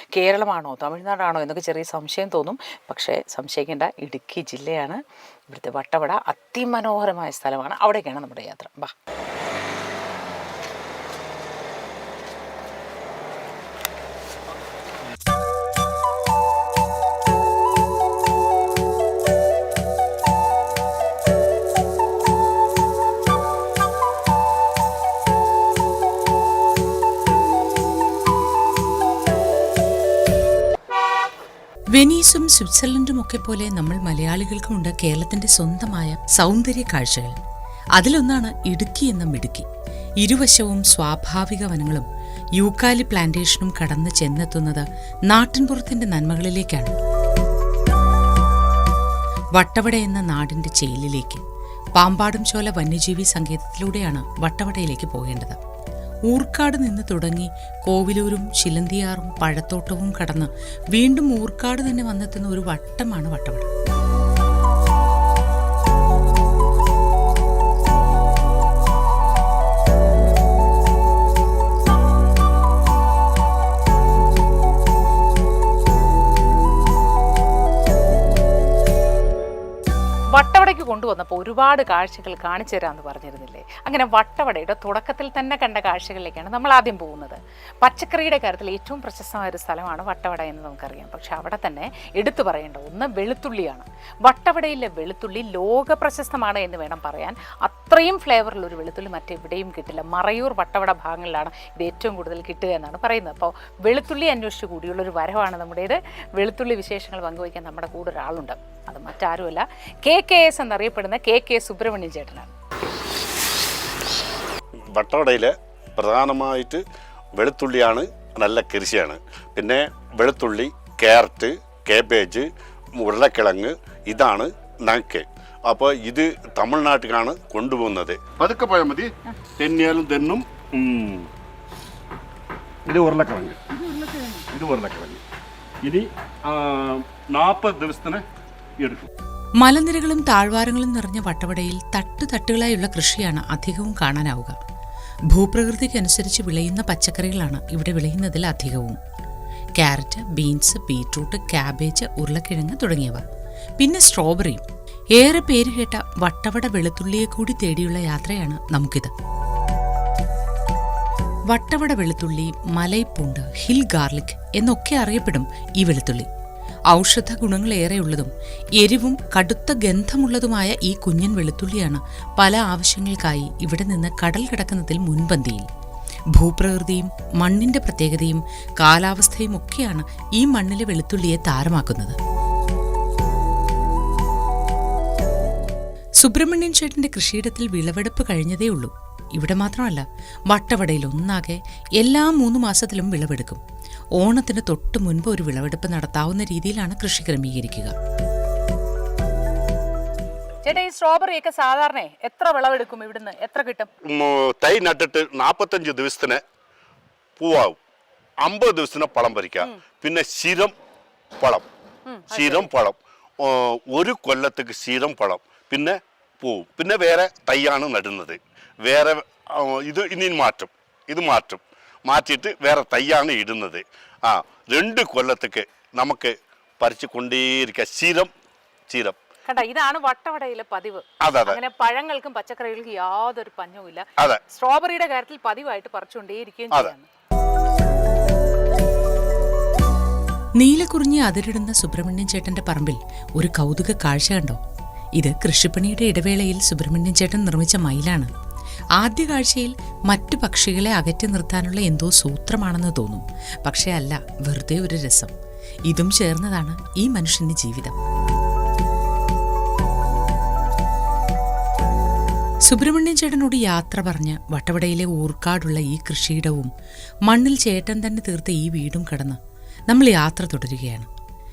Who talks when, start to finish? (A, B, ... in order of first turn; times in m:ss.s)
0:00.1-0:08.9 A
0:31.9-0:37.4 B
0:38.0-0:39.7 B
0:40.2-0:47.0 B
0:49.6-0:51.4 B
0:52.0-0:55.6 B
0:56.3-1:03.7 B
1:20.3-1:52.5 A
1:55.0-1:56.8 C
1:57.4-2:11.3 C
2:12.8-2:15.2 C
2:15.8-2:18.2 C
2:18.8-2:19.1 C
2:19.6-2:24.6 B
2:25.3-2:29.0 B
2:29.8-2:33.2 B
2:33.8-2:39.1 B
2:41.5-2:46.3 B
2:46.9-2:55.7 B
2:56.3-3:02.2 B
3:06.2-3:13.6 B
3:14.2-3:17.9 B
3:20.6-3:23.9 A
3:24.0-3:26.4 C
3:27.4-3:27.8 C
3:28.4-3:30.7 C
3:31.4-3:31.7 C
3:32.1-3:32.7 A
3:32.3-3:48.3 C
3:48.9-3:49.2 C
3:49.4-3:57.1 A
3:51.2-3:51.6 C
4:00.6-4:04.6 B
4:05.2-4:08.3 B
4:09.0-4:15.3 B
4:15.9-4:18.0 B
4:22.6-4:26.7 B
4:27.3-4:29.4 B
4:29.9-4:31.1 B